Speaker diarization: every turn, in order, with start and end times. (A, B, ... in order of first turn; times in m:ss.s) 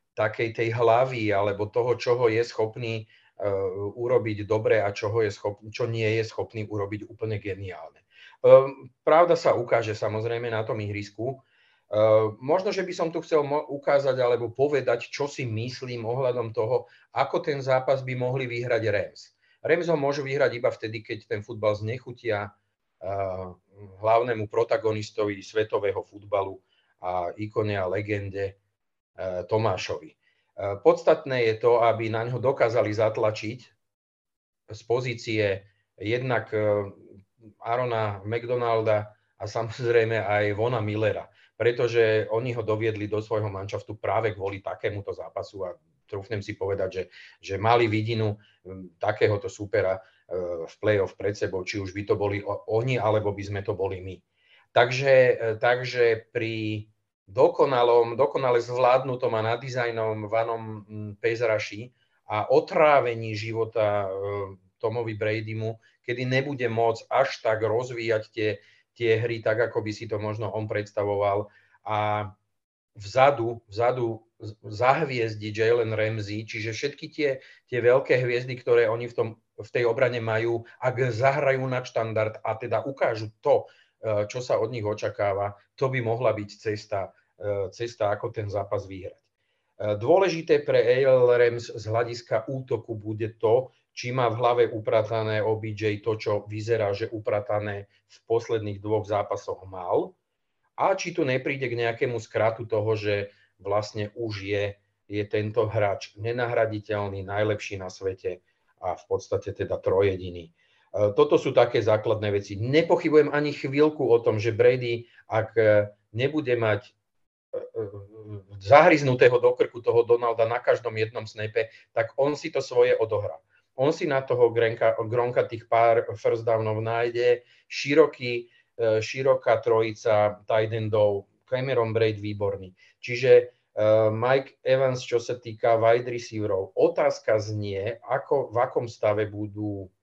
0:00.2-0:28.6 A
0:29.2-0:33.7 A
0:34.7-0:54.2 A
0:54.7-1:12.3 A
1:13.0-1:29.2 A
1:29.8-1:40.2 A
1:40.8-1:56.9 A
1:57.5-2:19.9 A